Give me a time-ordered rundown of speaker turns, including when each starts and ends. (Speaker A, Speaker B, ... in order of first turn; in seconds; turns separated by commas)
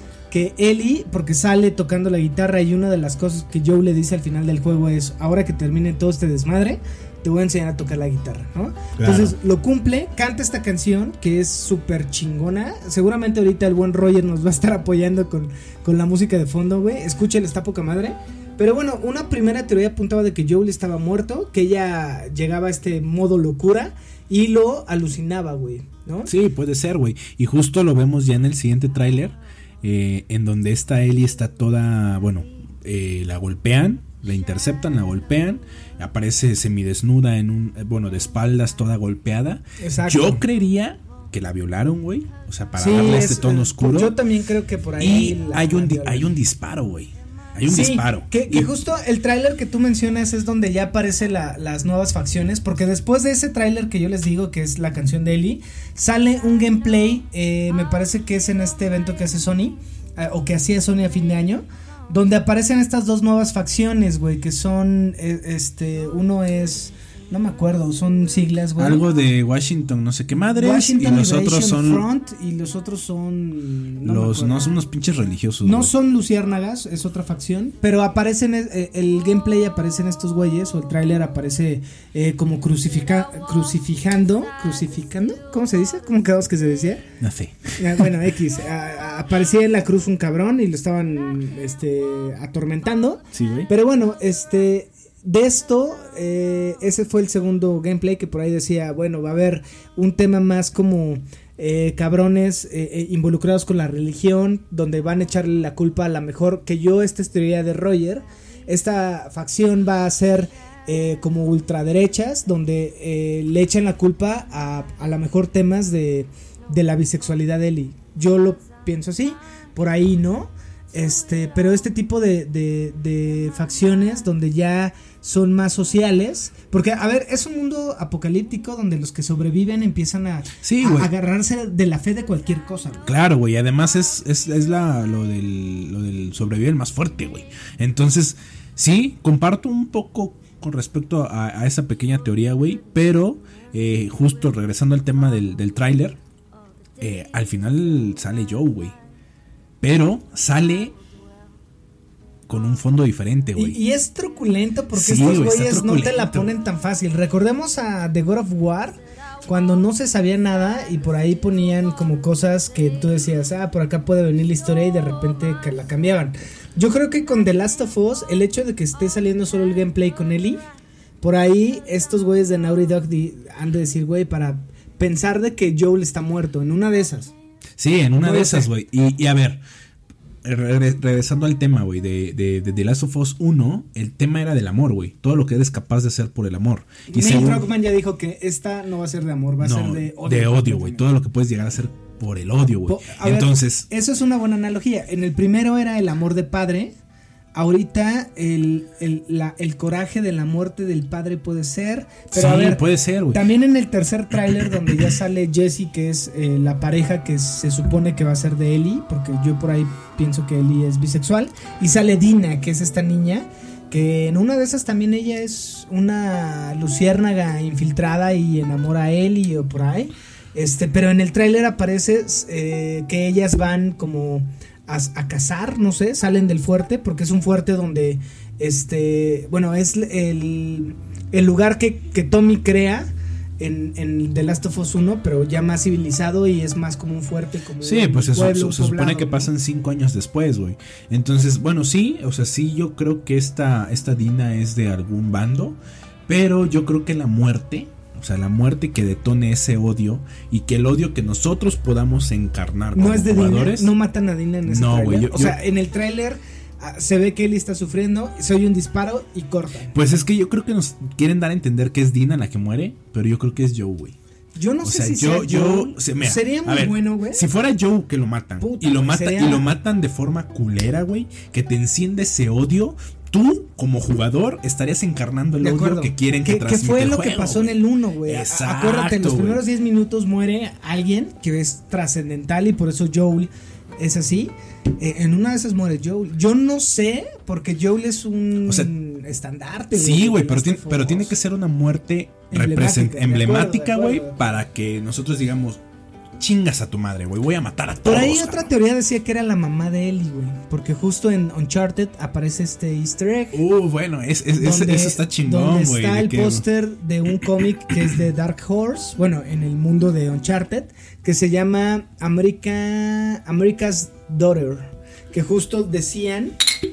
Speaker A: 0.3-26.3, Speaker B: 9.0-9.3, Speaker B: 26.2-44.2, Speaker A: 39.8-40.5, Speaker A: 42.8-46.3, Speaker B: 45.0-48.7, Speaker A: 47.7-69.0, Speaker B: 68.8-72.1, Speaker A: 70.5-74.7, Speaker B: 74.0-75.9, Speaker A: 75.6-87.0, Speaker B: 87.2-88.2, Speaker A: 87.8-133.1, Speaker B: 93.3-93.7, Speaker B: 130.6-131.1, Speaker B: 133.1-146.2, Speaker B: 147.0-148.9, Speaker B: 149.8-150.9, Speaker B: 152.5-153.8, Speaker A: 153.6-170.6, Speaker B: 154.9-156.5, Speaker A: 171.2-177.3, Speaker B: 177.8-179.6, Speaker A: 178.2-178.7, Speaker B: 180.4-187.7, Speaker A: 187.1-191.0, Speaker B: 189.6-193.8, Speaker A: 192.9-196.9, Speaker A: 197.5-239.5, Speaker B: 202.3-203.4, Speaker B: 237.8-253.9, Speaker A: 252.9-259.9, Speaker B: 254.7-255.6, Speaker B: 259.9-264.1, Speaker A: 264.6-267.4, Speaker B: 264.8-279.6, Speaker A: 268.6-269.7, Speaker A: 275.6-291.3, Speaker B: 288.6-288.9, Speaker B: 289.9-295.8, Speaker A: 292.5-294.4, Speaker B: 296.4-298.7, Speaker A: 298.0-303.6, Speaker B: 303.5-306.6, Speaker A: 304.6-316.6